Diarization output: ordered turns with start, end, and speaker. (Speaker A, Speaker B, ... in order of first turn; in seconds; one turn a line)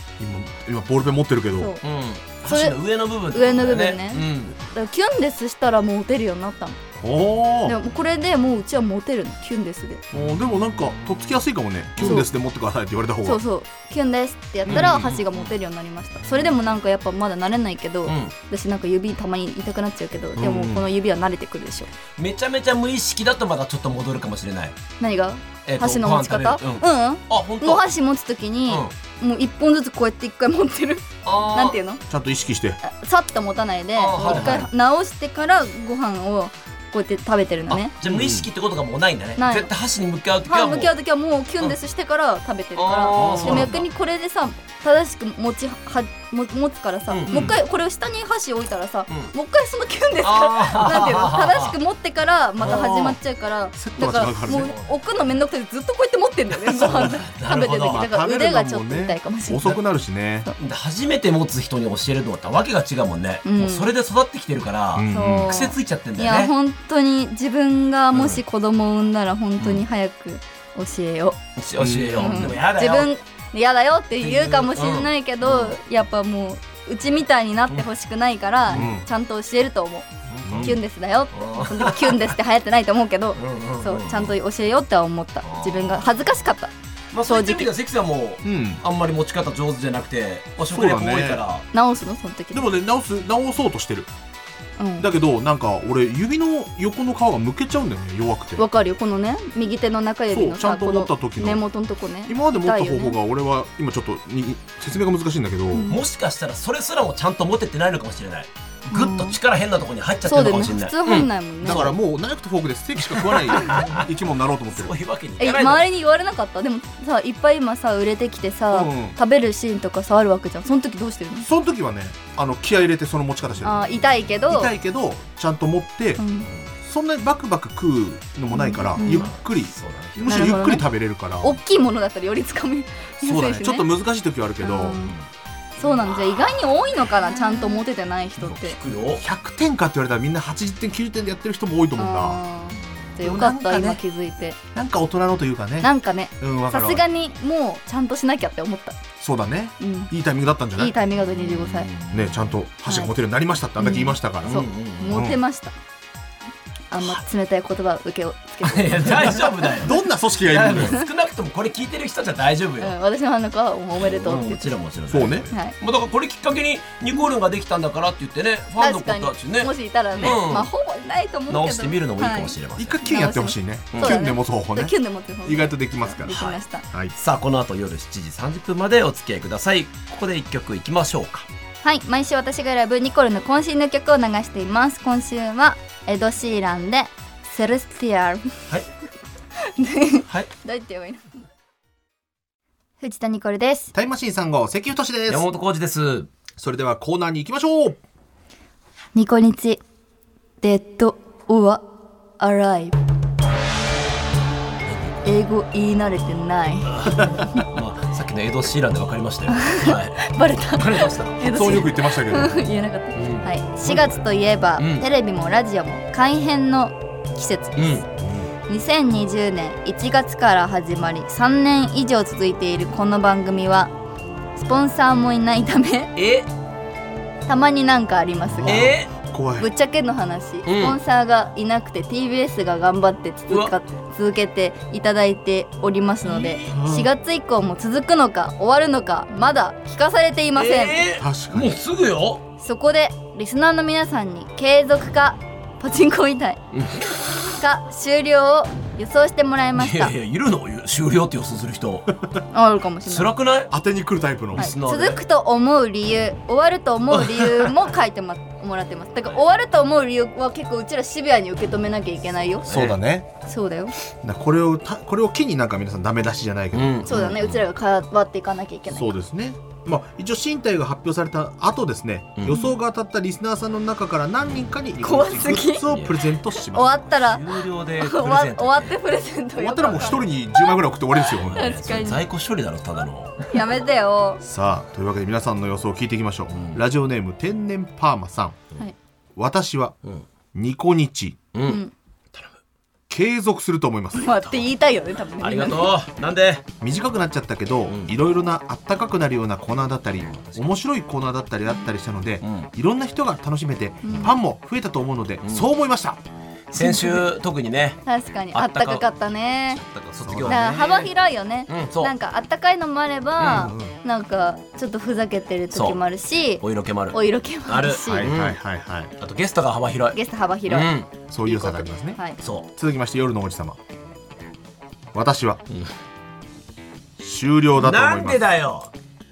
Speaker A: 0.2-1.7
Speaker B: 1.6-1.8
Speaker C: 1.8-4.5
Speaker B: 2.4-2.8
Speaker B: 3.3-6.8
Speaker A: 7.0-7.8
Speaker B: 7.7-10.0
Speaker A: 10.1-13.4
Speaker B: 12.0-12.3
Speaker B: 13.2-21.9
Speaker C: 14.7-15.5
Speaker A: 14.7-15.2
Speaker C: 18.1-18.3
Speaker A: 20.4-20.9
Speaker C: 22.2-24.8
Speaker B: 25.0-32.0
Speaker C: 25.7-27.9
Speaker C: 31.2-31.8
Speaker A: 32.1-32.8
Speaker B: 32.8-38.0
Speaker C: 34.0-34.7
Speaker A: 34.2-34.7
Speaker C: 38.0-40.9
Speaker A: 38.0-38.5
Speaker B: 39.4-39.7
Speaker B: 40.5-59.8
Speaker C: 42.8-43.8
Speaker A: 43.1-43.8
Speaker C: 47.1-47.6
Speaker A: 47.3-47.6
Speaker C: 50.2-51.8
Speaker C: 52.6-53.2
Speaker A: 53.8-54.7
Speaker C: 54.5-55.0
Speaker A: 56.7-57.1
Speaker C: 56.8-58.1
Speaker A: 57.9-60.5
Speaker C: 60.6-66.5
Speaker B: 63.4-63.9
Speaker A: 65.0-65.6
Speaker B: 65.1-71.4
Speaker C: 68.1-68.4
Speaker C: 71.6-73.1
Speaker A: 71.8-72.5
Speaker B: 72.2-80.1
Speaker C: 74.2-75.8
Speaker A: 78.7-79.1
Speaker C: 80.3-80.8
Speaker A: 80.5-80.8
Speaker B: 80.6-86.7
Speaker C: 81.3-82.3
Speaker C: 83.4-84.4
Speaker C: 85.4-86.3
Speaker C: 87.1-91.7
Speaker B: 87.2-87.7
Speaker A: 88.4-88.8
Speaker A: 90.7-91.4
Speaker B: 91.7-92.7
Speaker A: 92.5-94.1
Speaker B: 94.8-95.1
Speaker A: 95.0-98.6
Speaker B: 98.6-103.2
Speaker A: 100.3-101.6
Speaker A: 102.3-105.9
Speaker B: 105.7-106.0
Speaker C: 105.9-111.3
Speaker B: 108.9-109.4
Speaker B: 110.3-112.0
Speaker A: 111.6-115.0
Speaker C: 113.1-114.1
Speaker C: 114.7-115.8
Speaker B: 115.4-121.5
Speaker A: 118.7-119.2
Speaker A: 121.4-126.2
Speaker B: 123.6-124.7
Speaker B: 126.2-126.5
Speaker C: 126.4-126.7
Speaker A: 126.8-131.6
Speaker B: 128.5-129.3
Speaker C: 129.0-130.6
Speaker B: 130.3-130.9
Speaker B: 131.4-133.9
Speaker A: 133.2-135.0
Speaker B: 134.6-135.1
Speaker C: 134.9-135.3
Speaker B: 135.8-138.8
Speaker C: 135.8-136.7
Speaker C: 138.4-139.2
Speaker A: 139.2-142.4
Speaker B: 142.0-144.6
Speaker A: 143.2-144.0
Speaker A: 144.7-147.0
Speaker B: 145.8-149.0
Speaker A: 149.2-150.9
Speaker B: 149.8-150.1
Speaker B: 150.8-151.9
Speaker C: 151.2-152.6
Speaker A: 152.1-155.4
Speaker B: 152.9-153.1
Speaker B: 153.8-155.7
Speaker C: 154.4-155.2
Speaker B: 156.9-159.9
Speaker C: 158.6-162.9
Speaker A: 159.8-161.0
Speaker B: 162.8-164.8
Speaker C: 164.0-170.7
Speaker A: 165.1-165.5
Speaker B: 168.8-176.9
Speaker C: 171.5-173.0
Speaker A: 172.8-174.9
Speaker C: 173.9-174.2
Speaker A: 175.5-176.3
Speaker C: 176.3-176.6
Speaker C: 177.2-181.5
Speaker B: 181.8-188.5
Speaker B: 189.7-191.3
Speaker B: 193.0-193.9
Speaker A: 193.9-195.5
Speaker C: 195.3-196.3
Speaker A: 196.5-198.0
Speaker B: 199.2-199.8
Speaker B: 200.6-201.8
Speaker B: 202.4-202.9
Speaker C: 204.8-205.4
Speaker B: 205.2-207.7
Speaker C: 206.9-211.4
Speaker B: 209.5-218.0
Speaker A: 211.4-212.7
Speaker C: 213.2-214.2
Speaker C: 214.8-215.1
Speaker C: 217.8-218.1
Speaker A: 218.2-218.5
Speaker B: 218.7-223.9
Speaker B: 224.6-226.1
Speaker C: 226.2-226.5
Speaker B: 227.5-228.9
Speaker A: 228.5-229.7
Speaker C: 228.7-229.1
Speaker B: 229.6-241.1
Speaker C: 230.7-231.0
Speaker C: 236.2-236.8
Speaker A: 236.7-237.1
Speaker C: 240.6-242.4
Speaker A: 241.2-241.8
Speaker B: 242.6-246.6
Speaker C: 246.7-247.2
Speaker B: 247.5-250.1
Speaker C: 249.8-252.2
Speaker B: 252.5-253.3
Speaker C: 253.1-253.7
Speaker A: 253.7-254.7
Speaker C: 254.6-255.2
Speaker B: 254.6-262.7
Speaker C: 257.1-257.8
Speaker C: 262.6-263.0
Speaker A: 262.7-263.3
Speaker B: 263.5-263.9
Speaker A: 264.2-267.2
Speaker C: 266.7-267.6
Speaker B: 267.1-269.1
Speaker A: 268.9-276.9
Speaker B: 275.0-275.9
Speaker C: 275.9-276.2
Speaker B: 276.6-282.2
Speaker C: 277.1-279.0
Speaker A: 279.6-281.8
Speaker C: 279.8-280.3
Speaker C: 281.3-283.5
Speaker B: 283.5-284.4
Speaker A: 284.4-288.6
Speaker C: 286.5-286.8
Speaker A: 289.4-289.9
Speaker A: 290.5-291.4
Speaker C: 291.5-292.5
Speaker B: 291.6-291.9
Speaker A: 293.1-294.5
Speaker B: 294.1-295.9
Speaker C: 295.4-296.6
Speaker A: 296.8-306.2
Speaker C: 297.9-298.1
Speaker C: 300.3-300.6
Speaker C: 302.4-302.7
Speaker B: 304.0-304.4
Speaker C: 305.4-305.7
Speaker C: 306.7-309.1
Speaker B: 306.8-307.3
Speaker B: 308.1-309.8
Speaker C: 309.7-311.1
Speaker A: 310.2-310.6
Speaker B: 310.5-318.3
Speaker C: 311.7-312.1
Speaker C: 313.4-313.7
Speaker A: 313.4-313.9
Speaker C: 315.7-316.0
Speaker C: 316.5-318.6
Speaker A: 318.1-319.1
Speaker C: 319.2-321.1
Speaker B: 320.1-320.9
Speaker A: 321.3-322.2
Speaker B: 321.5-322.4
Speaker C: 322.4-322.7
Speaker A: 322.8-323.8
Speaker A: 325.1-325.6
Speaker A: 327.2-328.4
Speaker C: 327.8-328.9